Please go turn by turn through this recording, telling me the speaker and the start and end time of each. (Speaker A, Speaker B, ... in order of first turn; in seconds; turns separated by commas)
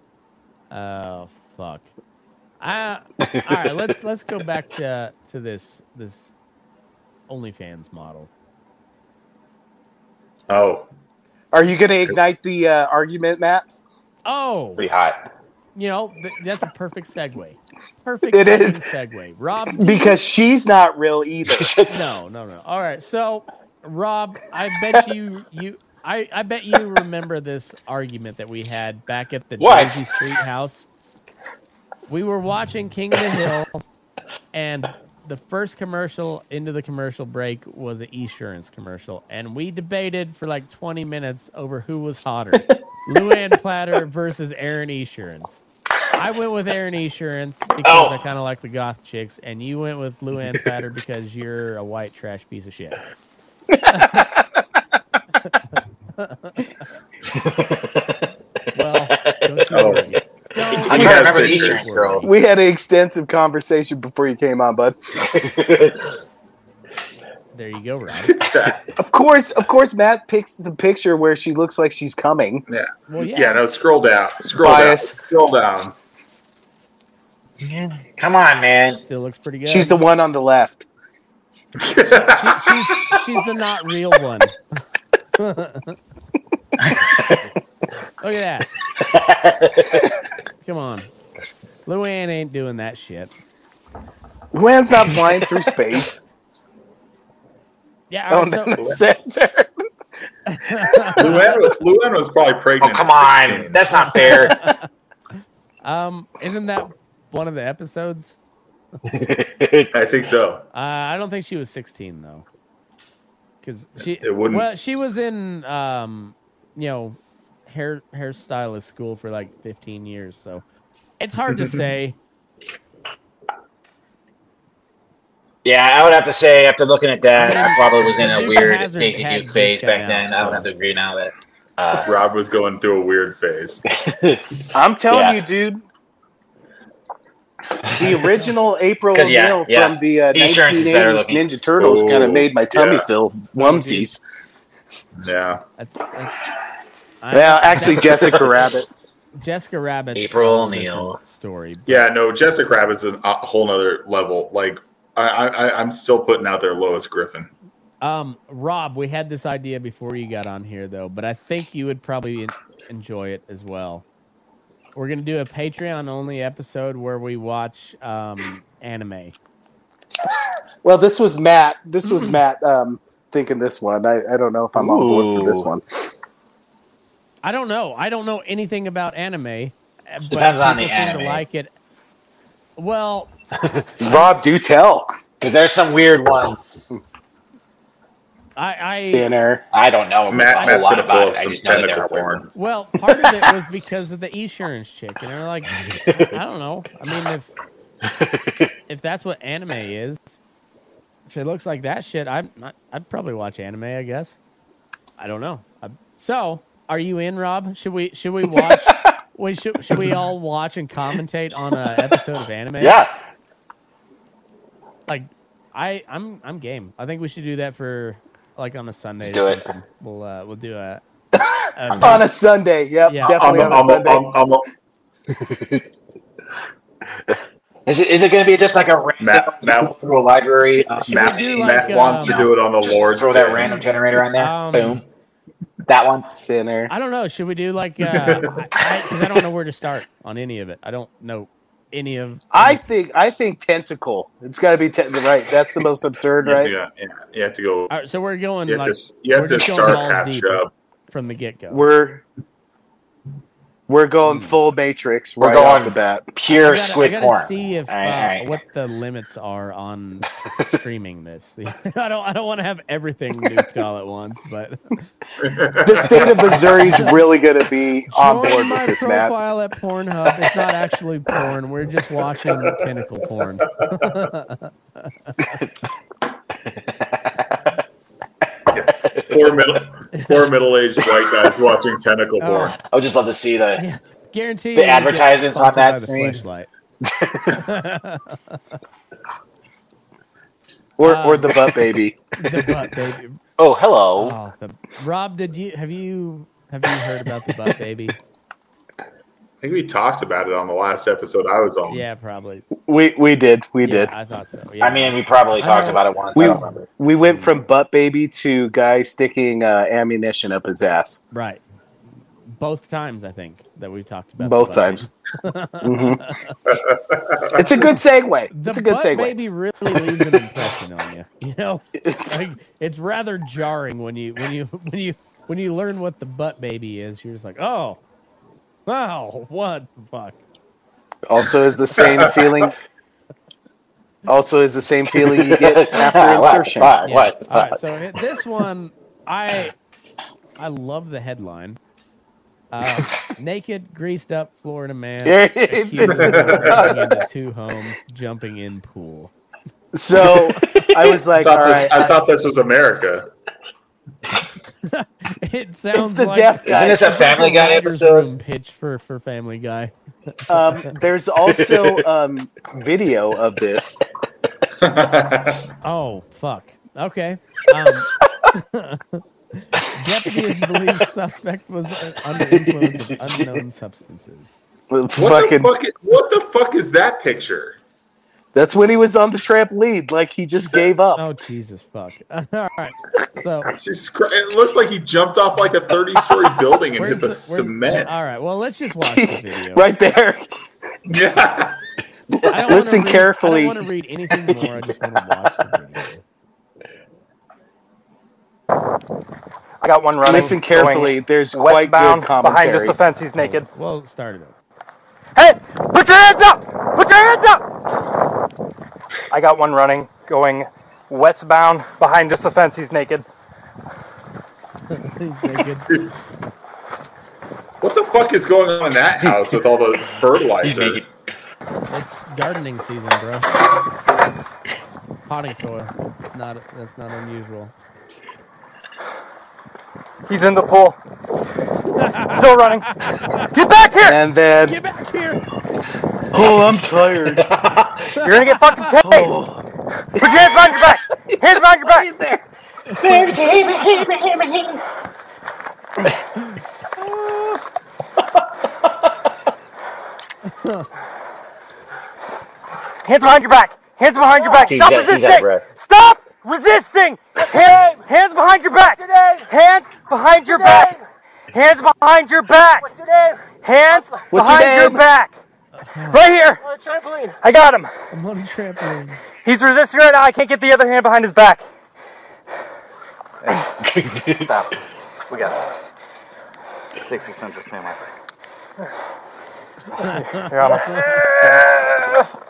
Speaker A: 0.7-1.9, Speaker A: 2.6-6.3, Speaker B: 3.2-3.9, Speaker A: 7.3-8.3, Speaker C: 10.5-10.9, Speaker D: 11.5-13.7, Speaker A: 14.2-14.8, Speaker B: 14.8-15.2, Speaker A: 15.7-20.2, Speaker D: 18.3-18.8, Speaker D: 19.8-21.7, Speaker B: 21.5-22.0, Speaker A: 21.9-30.9, Speaker B: 29.6-30.0, Speaker A: 32.1-33.8, Speaker A: 34.5-45.6, Speaker A: 46.1-53.0, Speaker B: 47.8-48.2, Speaker A: 53.9-54.3, Speaker A: 56.2-56.7, Speaker B: 57.3-58.0, Speaker A: 58.7-62.3, Speaker C: 59.7-60.1, Speaker B: 60.7-62.3, Speaker C: 60.8-61.9, Speaker D: 62.2-65.0, Speaker B: 65.3-66.0, Speaker A: 67.5-68.4, Speaker C: 68.3-68.8, Speaker D: 69.0-72.6, Speaker C: 72.7-75.9, Speaker A: 73.1-73.6, Speaker D: 74.5-75.2, Speaker B: 77.6-79.0, Speaker A: 79.0-80.0, Speaker D: 79.7-80.8, Speaker C: 81.8-82.7, Speaker A: 82.2-84.5, Speaker A: 85.4-86.0, Speaker B: 86.9-87.2, Speaker A: 88.2-88.7, Speaker B: 89.0-89.9, Speaker A: 90.6-91.1, Speaker A: 91.8-93.3, Speaker D: 94.5-96.2, Speaker A: 98.1-98.8, Speaker D: 98.3-99.7, Speaker A: 100.5-101.5, Speaker C: 101.2-104.0, Speaker B: 102.8-104.6, Speaker A: 103.9-104.8, Speaker A: 105.8-108.3, Speaker B: 109.1-109.9, Speaker C: 109.9-110.6, Speaker A: 110.7-112.5, Speaker A: 113.6-120.6, Speaker C: 114.0-114.7, Speaker A: 121.2-122.2, Speaker B: 125.6-132.2, Speaker A: 127.3-130.7, Speaker C: 132.0-133.8, Speaker B: 134.0-134.4, Speaker D: 134.7-135.8, Speaker B: 135.1-135.4, Speaker D: 137.9-144.2, Speaker B: 139.1-141.4, Speaker C: 141.8-143.1, Speaker A: 143.6-144.1, Speaker C: 145.2-145.6, Speaker A: 145.8-146.4, Speaker A: 147.2-148.5, Speaker D: 147.3-148.9, Speaker A: 149.3-152.1, Speaker B: 150.1-151.2, Speaker C: 151.9-157.5, Speaker A: 158.0-164.0, Speaker A: 164.9-169.3, Speaker D: 170.8-176.1, Speaker A: 172.0-172.4, Speaker B: 174.8-175.7, Speaker A: 177.4-181.7, Speaker B: 180.3-181.4, Speaker A: 182.8-183.3, Speaker D: 184.0-185.1, Speaker B: 185.4-186.7, Speaker A: 188.6-189.3, Speaker D: 189.1-189.6, Speaker B: 189.7-192.4, Speaker C: 190.3-192.5, Speaker A: 192.5-197.5, Speaker B: 198.1-198.7, Speaker A: 198.9-200.4, Speaker A: 201.3-204.4, Speaker A: 205.2-213.0, Speaker B: 212.8-213.1, Speaker A: 215.1-221.0, Speaker B: 219.2-219.7, Speaker A: 221.7-222.3, Speaker B: 221.9-222.3, Speaker D: 222.0-224.4, Speaker A: 223.1-223.7, Speaker C: 223.3-224.7, Speaker B: 225.3-225.8, Speaker B: 227.9-235.0, Speaker C: 229.2-230.0, Speaker A: 230.9-232.5, Speaker C: 231.0-233.8, Speaker A: 234.3-235.0, Speaker B: 235.9-236.3, Speaker D: 236.4-236.9, Speaker A: 236.9-242.8, Speaker C: 238.1-238.5, Speaker D: 242.5-246.7, Speaker C: 246.4-247.9, Speaker A: 247.9-251.8, Speaker C: 248.7-250.7, Speaker D: 251.7-252.2, Speaker D: 253.9-256.3, Speaker A: 254.2-254.6, Speaker B: 255.4-258.5, Speaker A: 256.6-265.1, Speaker C: 265.4-266.6, Speaker D: 265.8-269.3, Speaker A: 268.1-275.6, Speaker C: 278.7-282.8, Speaker A: 280.1-280.4, Speaker A: 282.4-282.7, Speaker B: 282.8-283.8, Speaker A: 283.8-286.7, Speaker B: 284.8-286.4, Speaker B: 287.2-287.5, Speaker A: 287.5-288.6, Speaker D: 291.0-292.2, Speaker A: 291.0-291.7, Speaker A: 292.4-293.4, Speaker B: 293.6-294.3, Speaker A: 294.1-298.1, Speaker C: 299.6-302.0, Speaker A: 301.9-302.7, Speaker D: 302.8-304.1, Speaker A: 303.8-306.7, Speaker B: 304.8-306.9, Speaker D: 306.3-311.2, Speaker A: 307.2-307.6, Speaker A: 311.3-311.6, Speaker A: 312.5-316.6, Speaker D: 314.4-315.1, Speaker D: 315.8-316.2, Speaker D: 317.5-319.3, Speaker A: 318.5-328.0, Speaker A: 328.9-330.4, Speaker D: 331.3-332.7, Speaker D: 334.3-337.0, Speaker B: 335.2-337.8, Speaker A: 337.0-339.7, Speaker A: 340.6-341.8, Speaker A: 342.7-349.3, Speaker D: 345.2-347.2, Speaker C: 346.1-346.8, Speaker D: 349.9-352.2, Speaker C: 351.4-353.3, Speaker A: 354.8-359.9, Speaker D: 355.9-357.3, Speaker B: 356.6-358.3, Speaker D: 360.5-364.0, Speaker A: 360.5-360.9, Speaker B: 361.5-362.0, Speaker C: 364.8-365.7, Speaker A: 365.8-374.6, Speaker B: 372.7-373.4, Speaker D: 374.9-375.7, Speaker C: 375.1-377.8, Speaker D: 378.5-381.2, Speaker A: 381.1-383.7, Speaker C: 383.7-388.1, Speaker A: 387.0-389.9, Speaker D: 389.0-390.5, Speaker C: 391.1-391.8, Speaker D: 392.4-393.8, Speaker A: 392.5-396.2, Speaker E: 399.8-403.7, Speaker D: 400.2-403.0, Speaker A: 403.4-404.5, Speaker E: 405.4-407.6, Speaker E: 409.3-413.2, Speaker A: 414.9-416.1, Speaker C: 417.8-421.0, Speaker B: 420.6-421.1, Speaker A: 421.9-423.6, Speaker A: 425.2-427.7, Speaker E: 430.3-431.0, Speaker A: 431.9-433.5, Speaker E: 432.3-432.9, Speaker E: 433.5-434.2, Speaker D: 434.0-434.8, Speaker A: 434.6-435.4, Speaker D: 436.3-437.5, Speaker B: 437.5-438.0, Speaker E: 438.1-439.4, Speaker A: 438.2-438.9, Speaker D: 439.0-439.6, Speaker D: 440.2-440.8, Speaker E: 440.2-442.1, Speaker D: 441.9-442.4, Speaker A: 442.9-443.2, Speaker B: 443.0-444.8, Speaker A: 450.5-450.9, Speaker E: 453.0-460.9, Speaker B: 454.6-455.6, Speaker E: 461.5-462.9, Speaker E: 463.5-465.4, Speaker D: 464.3-465.0, Speaker A: 465.8-466.3, Speaker E: 466.1-466.7, Speaker E: 467.4-467.9, Speaker A: 468.1-469.2, Speaker E: 469.4-471.6, Speaker B: 473.9-474.5, Speaker F: 474.3-474.7, Speaker F: 475.3-475.6, Speaker F: 476.9-478.1, Speaker A: 479.9-481.3, Speaker E: 480.2-482.2